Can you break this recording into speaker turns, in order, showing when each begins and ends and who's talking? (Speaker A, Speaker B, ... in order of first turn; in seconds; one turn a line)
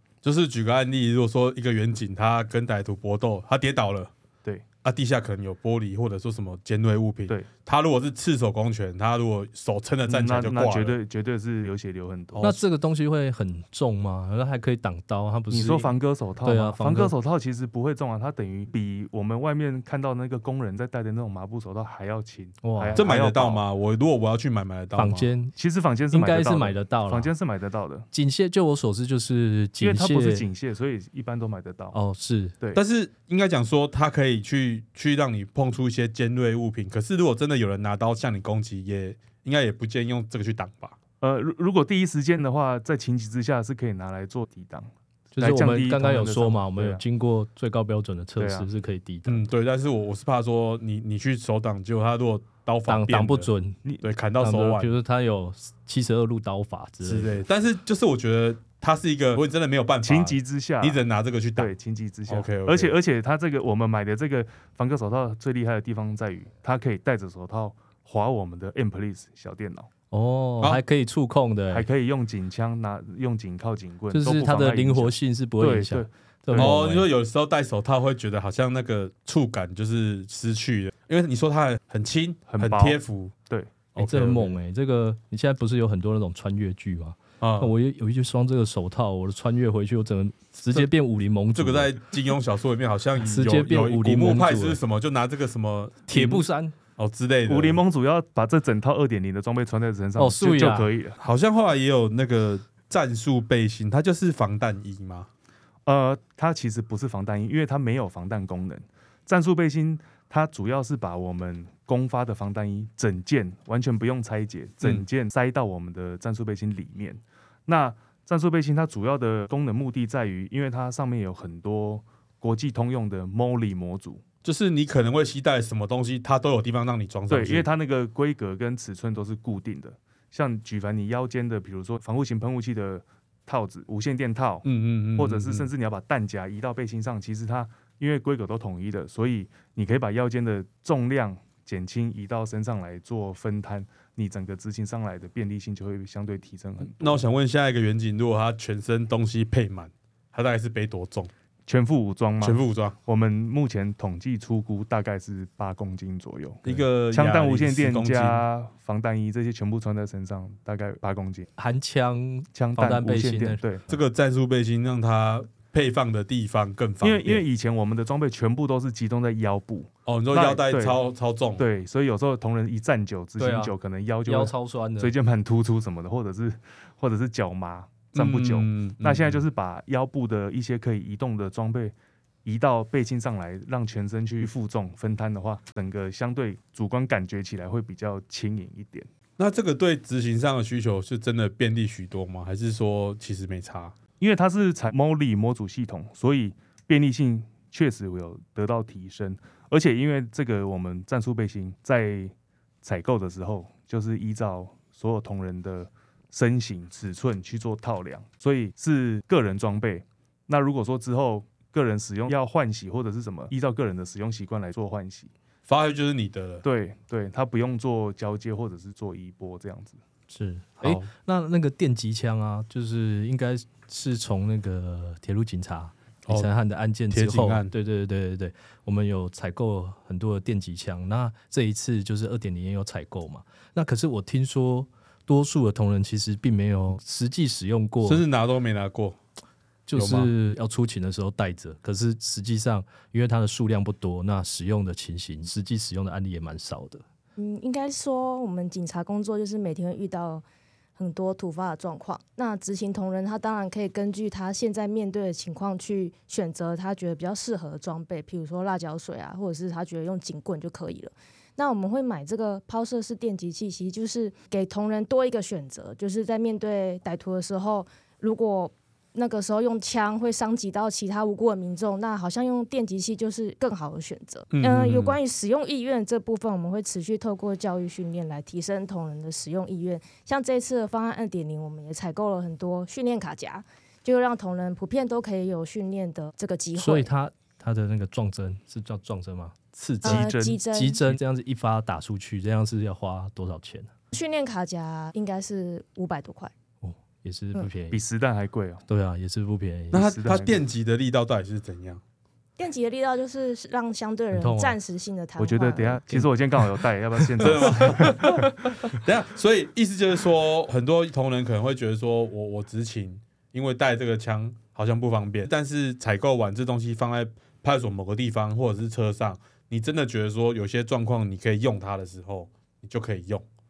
Speaker A: 0.2-4.1
Speaker A: 4.8-10.9
Speaker B: 10.1-12.6
Speaker C: 12.4-15.9
Speaker B: 15.5-23.6
Speaker C: 16.4-17.1
Speaker C: 22.6-23.0
Speaker A: 22.9-25.3
Speaker C: 24.9-25.5
Speaker B: 25.5-28.1
Speaker C: 26.1-27.3
Speaker C: 28.1-30.4
Speaker B: 29.8-32.0
Speaker C: 31.9-32.5
Speaker A: 32.7-41.0
Speaker B: 41.2-47.0
Speaker C: 45.3-49.4
Speaker B: 48.4-48.7
Speaker A: 49.2-53.5
Speaker C: 52.9-53.8
Speaker A: 54.0-54.9
Speaker C: 54.4-57.4
Speaker A: 57.0-61.7
Speaker B: 60.0-61.0
Speaker B: 61.5-69.9
Speaker A: 62.3-63.0
Speaker C: 70.1-71.8
Speaker B: 71.7-76.7
Speaker C: 74.1-77.1
Speaker A: 76.5-83.3
Speaker B: 82.5-83.8
Speaker C: 83.9-92.0
Speaker A: 83.9-84.5
Speaker A: 87.4-87.7
Speaker A: 91.5-97.8
Speaker C: 93.2-94.8
Speaker C: 96.1-96.7
Speaker B: 97.5-101.2
Speaker C: 100.2-100.9
Speaker A: 101.2-105.3
Speaker B: 105.8-124.2
Speaker A: 124.4-127.7
Speaker B: 127.3-147.2
Speaker A: 134.6-135.7
Speaker A: 146.8-151.3
Speaker B: 151.7-161.5
Speaker A: 152.4-153.0
Speaker A: 156.6-158.4
Speaker C: 161.6-163.6
Speaker B: 162.5-163.8
Speaker A: 163.9-167.4
Speaker B: 167.0-171.0
Speaker A: 170.1-171.6
Speaker B: 171.6-189.1
Speaker C: 173.4-173.7
Speaker C: 174.2-175.1
Speaker A: 178.1-179.4
Speaker A: 189.4-193.9
Speaker B: 194.2-215.3
Speaker A: 215.7-216.6
Speaker B: 216.6-220.0
Speaker C: 220.3-238.2
Speaker A: 220.8-221.1
Speaker A: 227.1-227.7
Speaker A: 238.0-239.2
Speaker C: 239.9-247.0
Speaker A: 239.9-240.3
Speaker D: 247.4-250.4
Speaker D: 250.9-287.1
Speaker A: 274.5-275.2
Speaker C: 286.8-293.9
Speaker D: 290.0-291.1
Speaker B: 290.0-290.6
Speaker D: 294.1-296.5
Speaker C: 296.8-298.0
Speaker B: 297.9-298.8
Speaker C: 298.9-300.1
Speaker A: 299.9-302.0
Speaker B: 299.9-300.6
Speaker D: 302.6-306.0
Speaker C: 304.3-304.8
Speaker B: 305.4-308.4
Speaker A: 307.4-323.4
Speaker C: 307.8-308.3